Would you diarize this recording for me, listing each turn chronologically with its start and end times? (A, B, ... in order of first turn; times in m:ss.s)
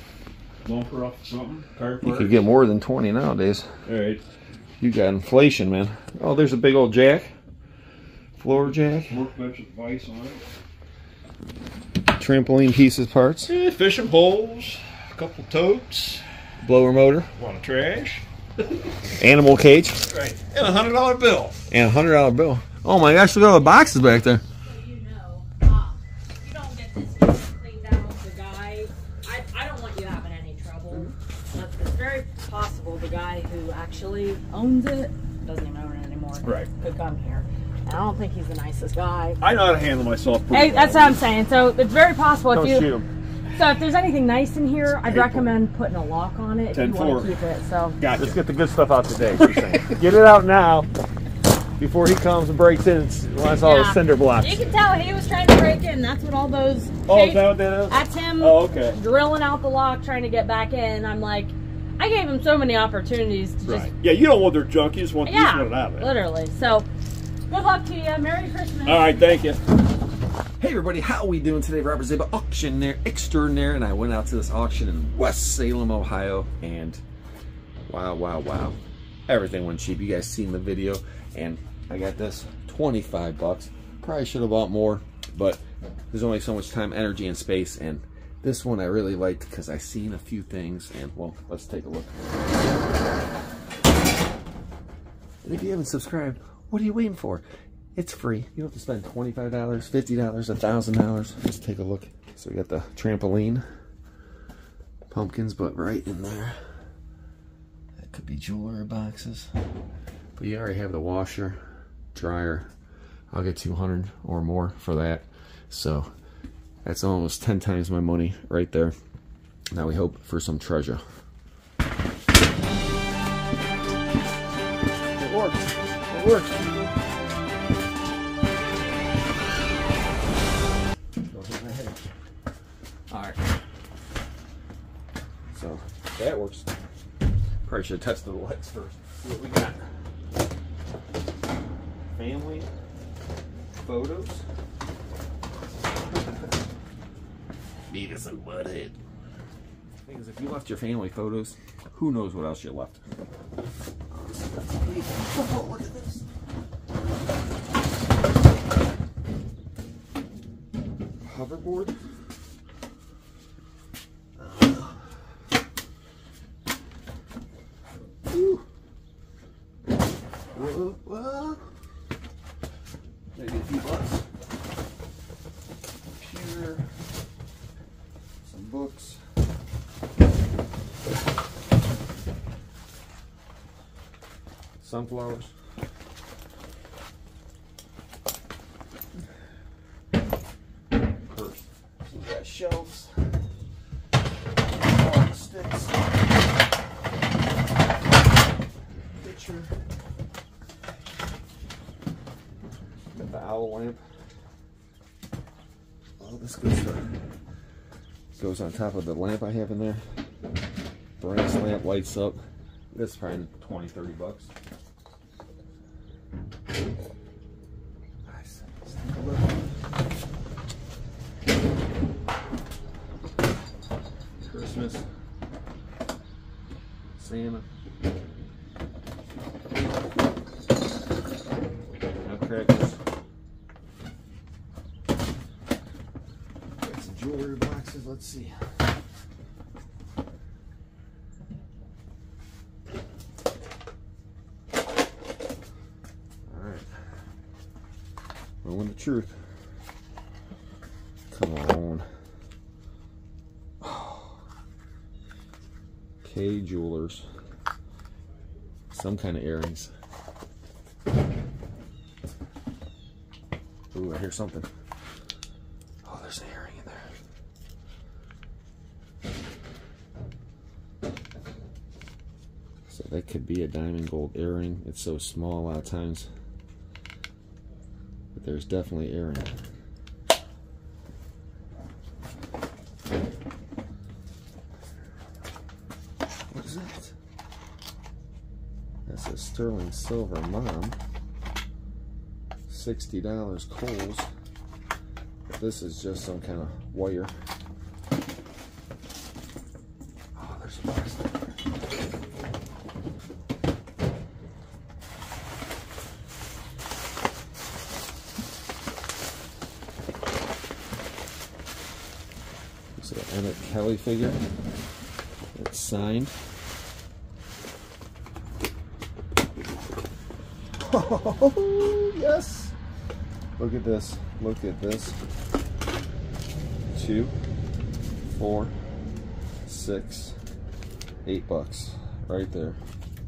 0:00.6-0:02.3 A
0:02.0-0:03.7 B
0:03.8-0:04.2 A
0:04.8-0:07.3 B
0:08.4-0:09.2 B
0:08.5-0:10.4 A
0:12.1-0:13.5 B
0:13.5-0:16.2 A
0:16.6-0:17.3 B
0:17.4-0:18.8 A
0:19.2-0:20.0 B
0:20.1-0:21.6 A
0:21.7-0:24.4 B
0:24.6-0:39.4 C
0:36.4-0:36.7 A
0:39.4-0:41.2 A
0:40.5-0:42.9 C
0:42.5-0:43.1 B
0:43.5-0:48.0 C
0:44.9-0:45.6 A
0:46.7-0:47.4 A
0:48.0-0:48.4 A
0:48.1-0:50.9 B
0:49.5-0:49.9 A
0:51.8-0:54.7 B
0:53.6-1:03.9 C
0:57.0-0:59.0 A
1:03.6-1:06.1 A
1:05.2-1:06.9 C
1:07.5-1:09.2 C
1:08.8-1:09.6 A
1:10.6-1:17.0 B
1:17.9-1:32.6 B
1:35.4-1:37.4 B
1:37.9-1:43.6 B
1:45.1-1:46.6 B
1:48.0-1:49.5 B
1:50.4-1:52.7 B
1:53.3-1:56.1 B
1:56.8-1:58.9 B
1:59.7-2:01.0 B
2:05.2-2:06.9 B
2:11.2-2:12.0 B
2:13.1-2:13.6 B
2:15.5-2:16.7 B
2:17.6-2:19.8 B
2:22.1-2:22.7 B
2:23.8-2:24.4 B
2:26.1-2:26.4 B
2:27.9-2:29.0 B
2:30.0-2:33.0 B
2:34.1-2:36.2 B
2:41.2-2:41.9 B
2:44.4-2:45.3 B
2:48.2-2:48.6 B
2:50.5-2:51.7 B
2:53.3-2:54.2 B
2:56.1-2:56.9 B
2:58.4-2:59.2 B
3:04.8-3:05.5 B
3:11.2-3:13.4 B
3:14.7-3:16.1 B
3:19.2-3:19.8 B
3:23.1-3:24.0 B
3:26.2-3:27.1 B
3:28.4-3:30.0 B
3:31.2-3:34.5 B
3:38.2-3:39.9 B
3:44.4-3:45.0 B
3:47.2-3:47.6 B
3:52.2-3:53.0 B
3:56.8-3:58.6 B
4:06.4-4:07.0 B
4:08.6-4:09.4 B
4:11.3-4:12.1 B
4:13.8-4:14.4 B
4:16.2-4:17.2 B
4:18.9-4:19.9 B
4:23.9-4:24.7 B
4:26.0-4:27.1 B
4:32.9-4:36.3 B
4:38.3-4:39.6 B
4:46.5-4:47.1 B
4:49.0-4:51.0 B
4:52.7-4:54.3 B
4:55.5-4:57.3 B
5:00.3-5:01.4 B
5:13.0-5:14.4 B
5:15.5-5:16.3 B
5:20.8-5:22.7 B
5:23.6-5:25.2 B
5:26.9-5:27.3 B
5:28.2-5:28.7 B
5:29.6-5:30.4 B
5:31.2-5:32.8 B